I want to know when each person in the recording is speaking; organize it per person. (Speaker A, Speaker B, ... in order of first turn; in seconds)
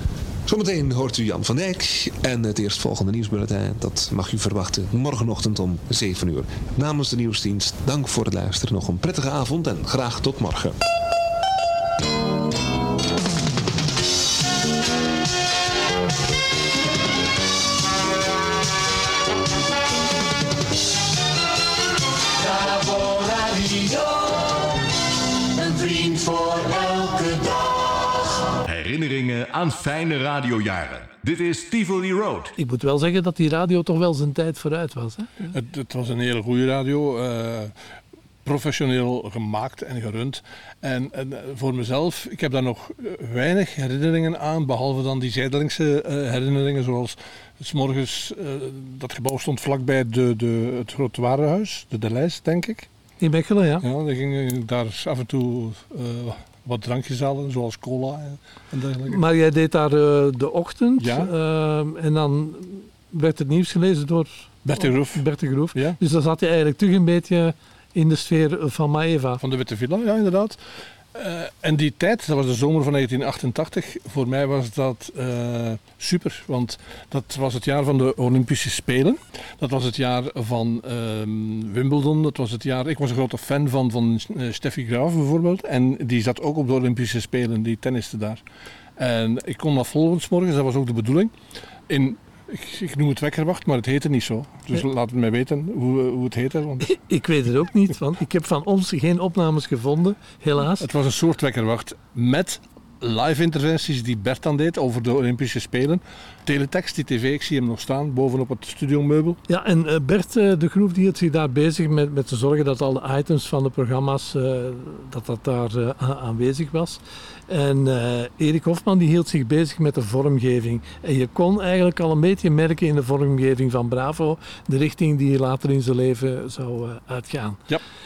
Speaker A: 0.5-10.8
Speaker B: 22.4-24.7, 25.5-28.2
Speaker C: 28.6-32.5
Speaker D: 32.5-35.5, 53.2-53.8, 59.1-69.4, 96.8-100.9, 109.5-127.6
Speaker E: 35.5-37.7, 38.4-52.9, 53.8-59.2, 61.0-61.3, 64.6-65.2, 69.4-70.6, 71.1-88.4, 89.0-91.3, 91.9-96.9, 100.8-109.4